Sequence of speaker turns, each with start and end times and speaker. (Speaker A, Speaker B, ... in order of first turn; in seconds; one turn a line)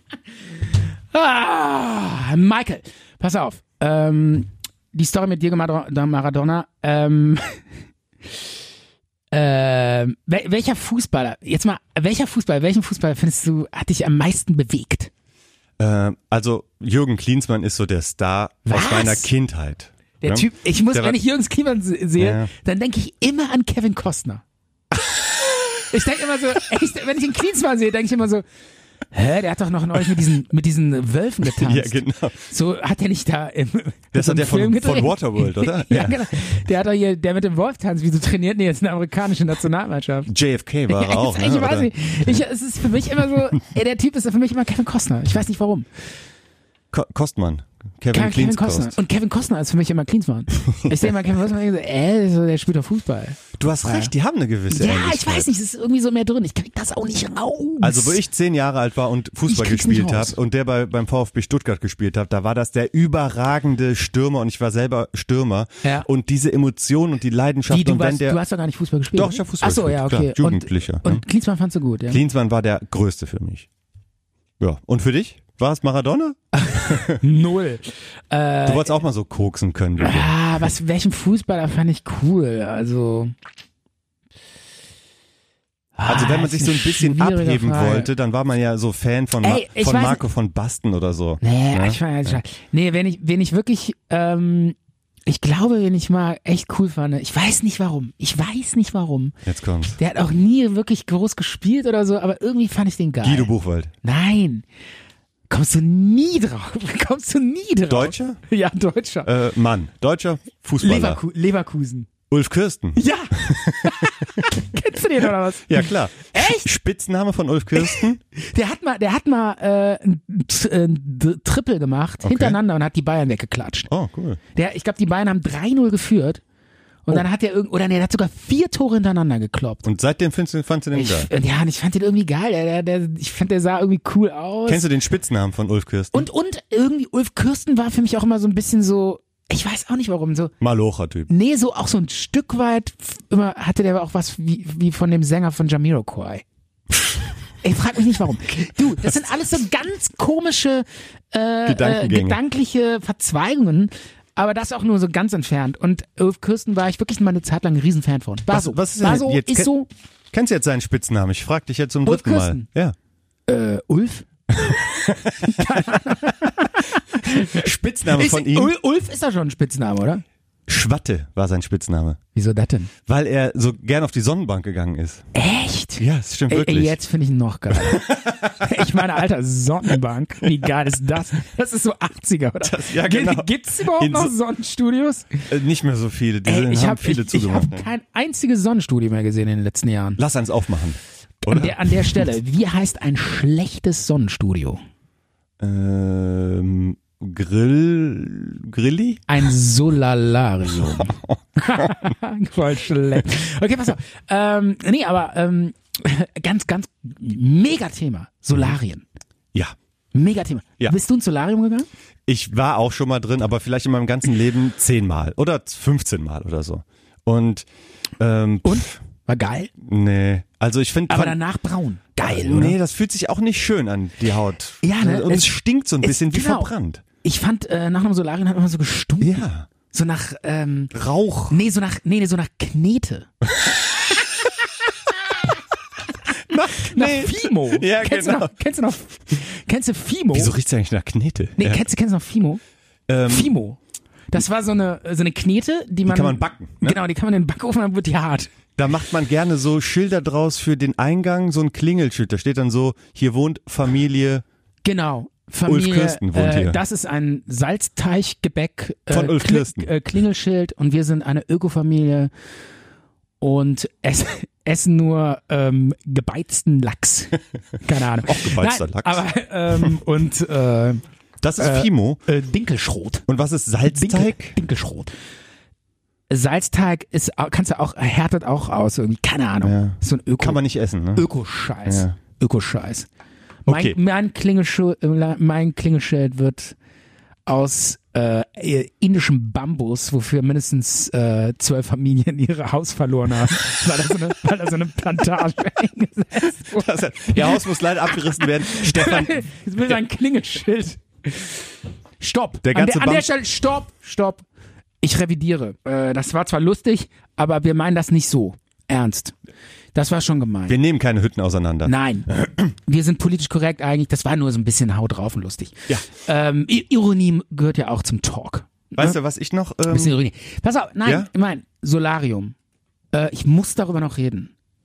Speaker A: 1.1-7.6
Speaker A: 9.3-15.1
Speaker B: 15.8-21.2
Speaker A: 18.7-19.3
Speaker A: 20.2-24.4
Speaker B: 22.2-22.5
Speaker A: 25.1-28.4
Speaker A: 29.1-40.3
Speaker B: 31.5-32.4
Speaker B: 34.1-36.3
Speaker B: 40.3-42.4
Speaker A: 40.9-45.9
Speaker B: 46.9-49.0
Speaker A: 48.1-54.1
Speaker B: 53.6-55.5
Speaker A: 54.7-58.2
Speaker B: 57.8-68.4
Speaker A: 59.5-60.4
Speaker A: 67.7-72.2
Speaker B: 69.1-71.2
Speaker B: 72.1-73.7
Speaker B: 74.6-77.2
Speaker A: 76.5-79.0
Speaker B: 78.7-80.3
Speaker A: 80.0-83.3
Speaker A: 86.0-88.1
Speaker B: 86.1-92.4
Speaker A: 89.4-90.2
Speaker A: 91.4-99.4
Speaker B: 99.5-100.0
Speaker A: 100.0-103.5
Speaker B: 103.2-103.9
Speaker A: 104.0-104.7
Speaker A: 105.5-109.3
Speaker B: 107.9-108.4
Speaker B: 109.3-111.2
Speaker A: 110.8-112.1
Speaker B: 112.3-114.5
Speaker A: 113.0-116.7
Speaker B: 115.5-118.2
Speaker A: 117.8-123.9
Speaker B: 122.2-122.6
Speaker B: 123.9-124.4
Speaker A: 124.5-126.4
Speaker A: 127.0-129.9
Speaker B: 129.8-131.3
Speaker A: 130.9-134.8
Speaker B: 134.7-136.3
Speaker A: 136.1-140.5
Speaker B: 140.6-141.3
Speaker A: 141.3-146.4
Speaker A: 147.6-159.9
Speaker B: 151.7-152.4
Speaker B: 158.5-159.7
Speaker B: 160.3-162.9
Speaker A: 162.1-162.7
Speaker A: 163.5-170.2
Speaker B: 164.6-166.0
Speaker B: 167.5-168.7
Speaker B: 170.7-172.2
Speaker A: 172.3-172.9
Speaker B: 173.1-175.3
Speaker A: 175.3-185.5
Speaker B: 176.0-177.0
Speaker B: 177.8-179.0
Speaker B: 182.6-184.3
Speaker B: 185.5-187.9
Speaker A: 186.4-190.2
Speaker B: 190.2-192.3
Speaker A: 191.5-194.8
Speaker B: 195.6-199.3
Speaker A: 199.3-209.1
Speaker B: 200.7-202.1
Speaker A: 210.1-211.9
Speaker B: 212.3-217.7
Speaker B: 218.2-219.0
Speaker A: 218.7-219.7
Speaker B: 219.8-221.4
Speaker A: 221.1-222.8
Speaker B: 222.2-227.0
Speaker A: 224.8-226.7
Speaker A: 227.2-230.9
Speaker B: 229.2-229.7
Speaker B: 230.9-231.6
Speaker A: 231.5-233.3
Speaker B: 236.4-238.5
Speaker A: 236.8-240.5
Speaker B: 240.3-241.8
Speaker A: 241.6-242.6
Speaker B: 243.1-243.5
Speaker A: 243.3-243.8
Speaker A: 244.3-248.5
Speaker B: 246.1-247.0
Speaker B: 248.8-254.4
Speaker A: 254.8-262.3
Speaker B: 255.7-256.8
Speaker B: 259.1-259.9
Speaker A: 263.4-271.0
Speaker B: 268.2-269.2
Speaker B: 271.4-272.2
Speaker A: 271.6-273.3
Speaker B: 273.3-274.6
Speaker A: 273.9-275.1
Speaker A: 276.3-280.6
Speaker B: 279.6-281.3
Speaker A: 281.1-283.1
Speaker B: 281.9-282.1
Speaker B: 283.7-284.0
Speaker A: 283.7-286.8
Speaker A: 287.5-301.6
Speaker B: 296.7-300.0
Speaker A: 302.2-304.4
Speaker B: 302.6-303.3
Speaker A: 305.0-309.4
Speaker A: 309.9-310.8
Speaker B: 310.7-311.9
Speaker A: 311.9-319.2
Speaker B: 319.0-320.2
Speaker A: 319.9-322.6
Speaker A: 323.1-324.5